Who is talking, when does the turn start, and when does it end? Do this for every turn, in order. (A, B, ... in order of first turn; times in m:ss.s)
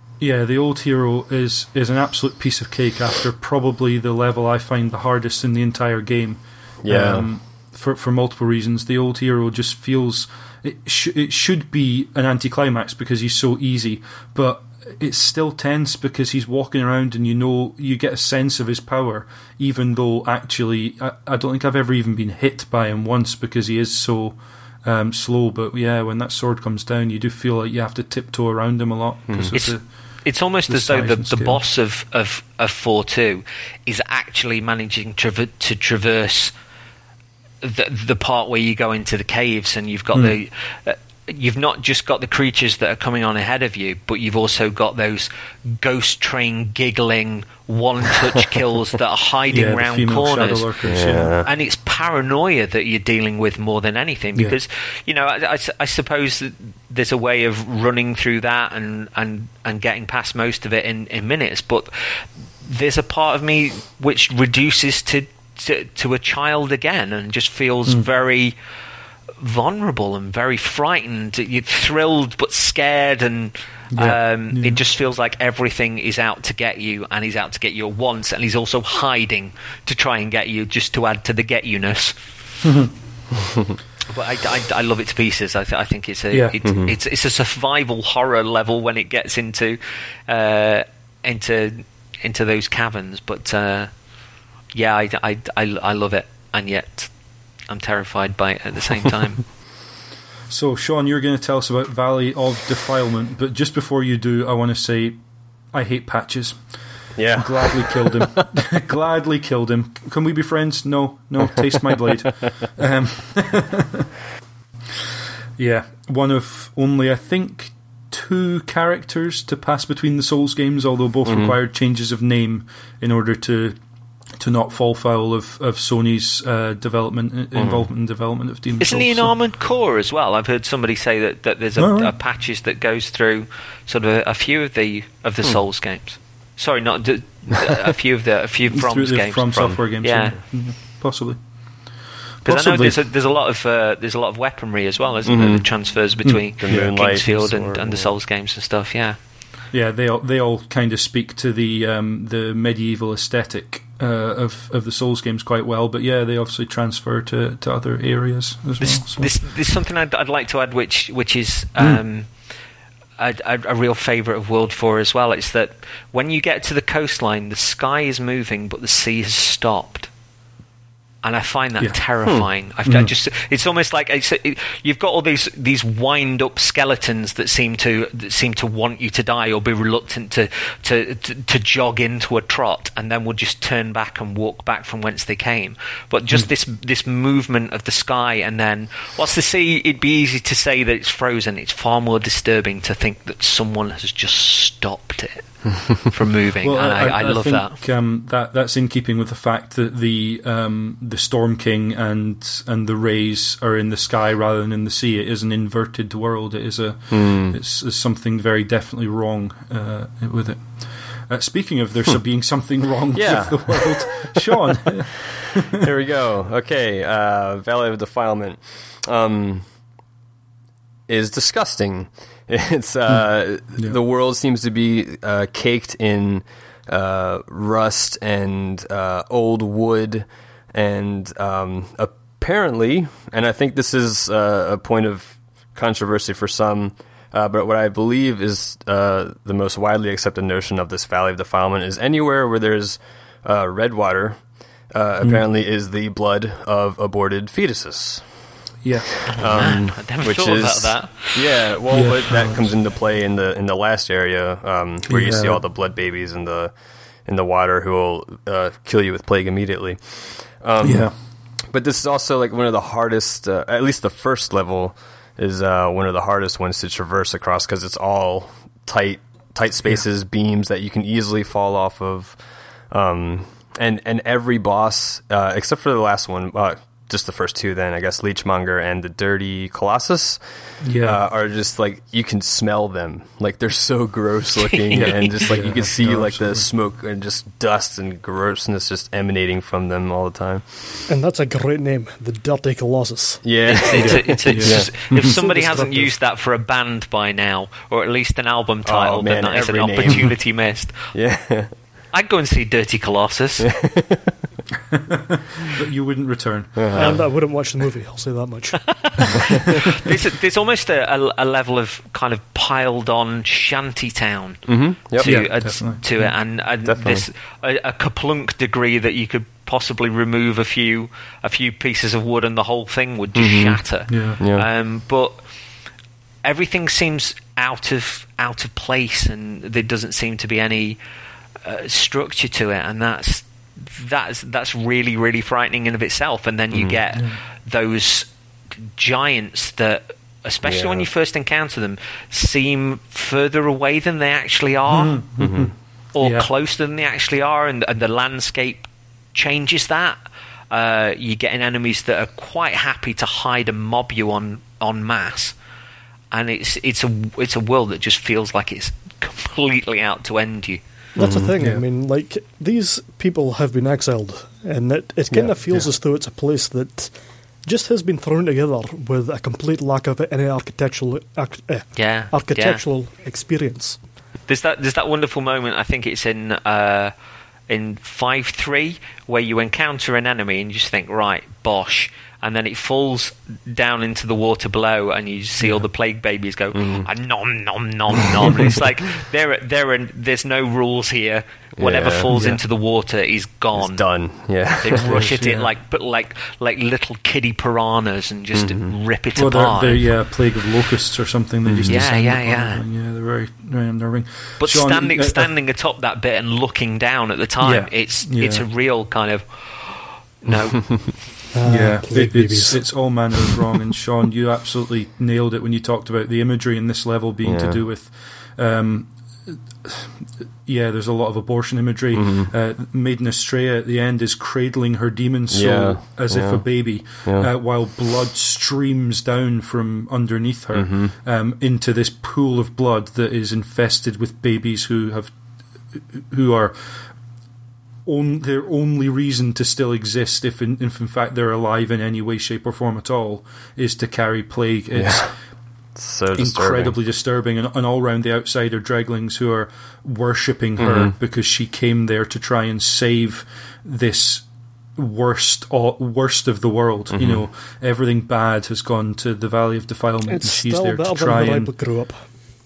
0:00.2-0:29.8 A
0:06.8-0:07.3 B
0:29.3-0:29.6 B
0:29.5-0:36.5 C
0:30.7-0:31.6 A
0:37.6-1:08.6 C
0:49.5-0:51.3 A
0:50.8-0:51.5 B
1:09.4-1:22.2 C
1:13.9-1:14.8 A
1:22.6-1:22.9 A
1:24.1-1:33.9 C
1:26.3-1:26.6 A
1:26.6-1:27.0 B
1:34.7-1:37.1 C
1:37.7-1:39.4 C
1:40.5-1:45.2 A
1:45.7-1:46.6 A
1:47.2-1:48.4 B
1:47.3-1:54.1 A
1:55.6-2:03.8 A
2:01.3-2:01.6 B
2:04.4-2:09.3 A
2:07.6-2:07.9 B
2:08.8-2:20.4 C
2:11.8-2:12.1 A
2:18.7-2:21.4 A
2:22.4-2:23.0 A
2:22.4-2:29.2 C
2:25.2-2:25.7 B
2:26.3-2:27.0 A
2:26.6-2:28.1 B
2:29.7-2:39.3 A
2:38.8-2:42.3 C
2:43.2-2:50.1 C
2:51.2-3:17.8 C
2:52.8-2:53.1 A
3:16.6-3:35.7 A
3:27.1-3:27.6 B
3:33.1-3:35.0 B
3:35.7-3:39.7 B
3:41.1-4:08.6 B
4:08.8-4:09.3 A
4:09.3-4:21.1 B
4:09.4-4:11.6 C
4:11.9-4:12.6 A
4:15.1-4:15.6 A
4:20.8-4:21.1 A
4:21.7-4:32.4 B
4:32.9-4:51.0 B
4:40.8-4:41.2 A
4:44.7-4:45.4 C
4:44.9-4:46.7 A
4:51.1-4:53.5 D
4:53.4-4:54.9 B
4:53.6-5:01.2 C
4:53.9-4:55.4 A
4:55.2-4:56.1 D
4:58.9-5:00.4 B
5:01.1-5:01.7 B
5:02.1-5:03.7 C
5:03.6-5:04.3 B
5:04.9-5:07.2 A
5:06.8-5:07.2 B
5:06.9-5:09.4 D
5:08.9-5:25.4 C
5:14.7-5:15.5 B
5:15.2-5:16.3 A
5:16.8-5:17.2 B
5:23.4-5:23.8 B
5:24.1-5:24.4 A
5:24.4-5:24.7 B
5:26.4-5:31.0 C
5:31.6-5:45.2 C
5:36.7-5:37.0 B
5:40.6-5:41.1 B
5:44.9-5:46.5 A
5:45.4-5:45.7 B
5:46.1-5:50.2 C
5:50.7-5:55.6 C
5:56.3-6:00.8 C
6:01.2-6:01.5 B
6:01.2-6:14.0 D
6:12.0-6:12.8 C
6:14.5-6:17.1 C
6:17.7-6:34.0 C
6:25.6-6:25.9 A
6:26.7-6:27.1 B
6:31.8-6:32.4 B
6:32.3-6:32.6 A
6:33.8-6:35.1 B
6:34.8-6:40.1 C
6:34.9-6:35.7 A
6:38.6-6:38.9 B
6:39.4-6:45.5 A
6:41.6-6:42.1 B
6:41.9-6:42.8 C
6:44.6-6:51.1 C
6:47.6-6:48.6 A
6:51.5-6:53.0 D
6:51.6-7:15.3 A
6:57.4-6:57.8 B
7:02.1-7:02.5 B
7:05.5-7:06.6 B
7:07.2-7:07.5 B
7:10.7-7:11.1 B
7:15.9-7:17.1 A
7:18.1-7:25.4 A
7:24.9-7:25.4 B
7:26.0-7:27.0 B
7:26.4-7:41.7 A
7:30.8-7:31.1 B
7:37.1-7:37.4 B
7:40.3-7:42.3 D